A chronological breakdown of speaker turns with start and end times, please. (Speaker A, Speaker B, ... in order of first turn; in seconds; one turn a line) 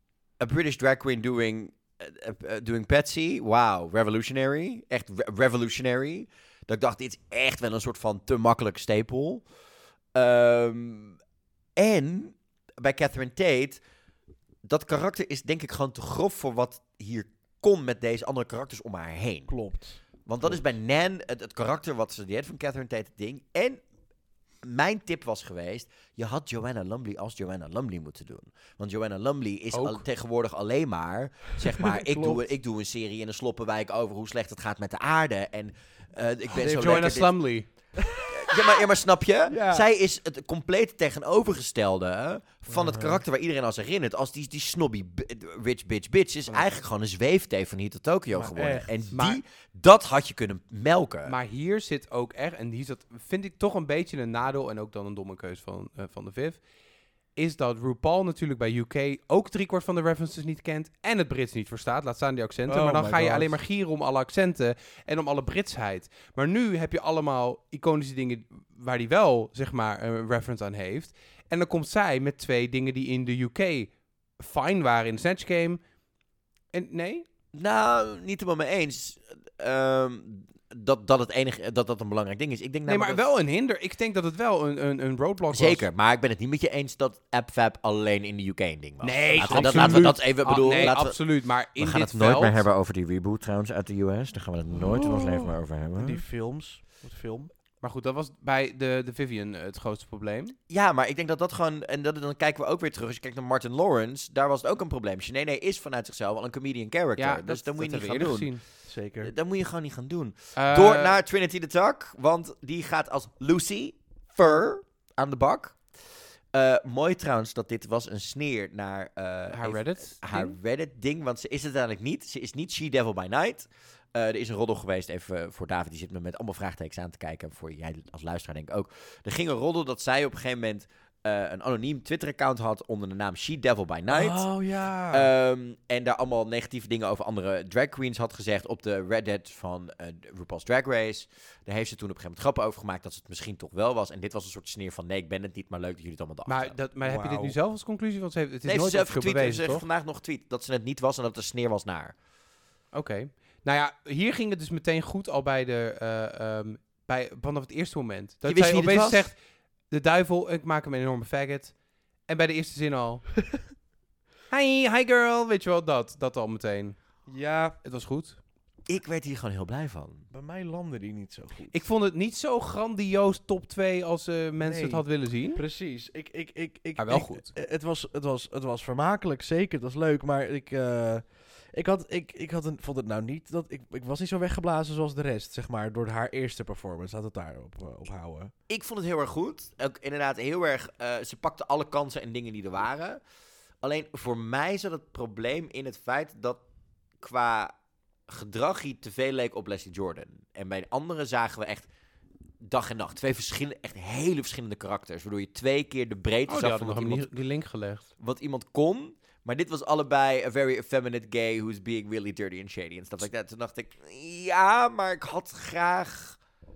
Speaker A: 0.4-9.4
Speaker A: 10.1-11.2
Speaker A: 11.8-13.8
Speaker A: 14.7-19.6
Speaker B: 19.5-20.6
Speaker A: 20.2-23.8
Speaker A: 24.6-37.4
Speaker C: 29.7-30.1
Speaker B: 31.8-32.4
Speaker B: 36.5-37.3
Speaker C: 36.6-38.0
Speaker B: 38.0-38.3
Speaker A: 38.3-51.3
Speaker B: 39.5-39.9
Speaker B: 42.7-43.2
Speaker B: 48.3-49.0
Speaker C: 49.1-49.4
Speaker C: 51.3-56.6
Speaker C: 57.4-75.8
Speaker B: 62.7-63.6
Speaker C: 76.7-77.3
Speaker A: 77.5-83.2
Speaker C: 82.8-85.8
Speaker A: 85.5-96.2
Speaker C: 89.0-92.6
Speaker B: 89.3-90.2
Speaker B: 94.8-97.5
Speaker C: 97.8-100.5
Speaker A: 100.7-134.5
Speaker C: 107.2-108.6
Speaker B: 108.8-109.3
Speaker C: 110.5-111.2
Speaker C: 119.5-120.6
Speaker B: 134.1-135.3
Speaker A: 135.1-146.8
Speaker C: 146.4-149.8
Speaker B: 147.0-147.6
Speaker A: 148.6-152.1
Speaker C: 152.9-159.4
Speaker A: 158.4-159.3
Speaker C: 159.9-163.5
Speaker C: 164.5-167.1
Speaker B: 167.3-167.8
Speaker C: 167.8-168.4
Speaker A: 168.9-170.3
Speaker B: 170.3-171.8
Speaker C: 171.7-175.6
Speaker B: 174.6-188.5
Speaker C: 177.0-177.5
Speaker A: 188.7-193.2
Speaker A: 193.8-196.6
Speaker A: 197.2-197.7
Speaker A: 198.3-201.9
Speaker A: 202.6-207.3
Speaker C: 206.5-208.1
Speaker A: 208.2-216.4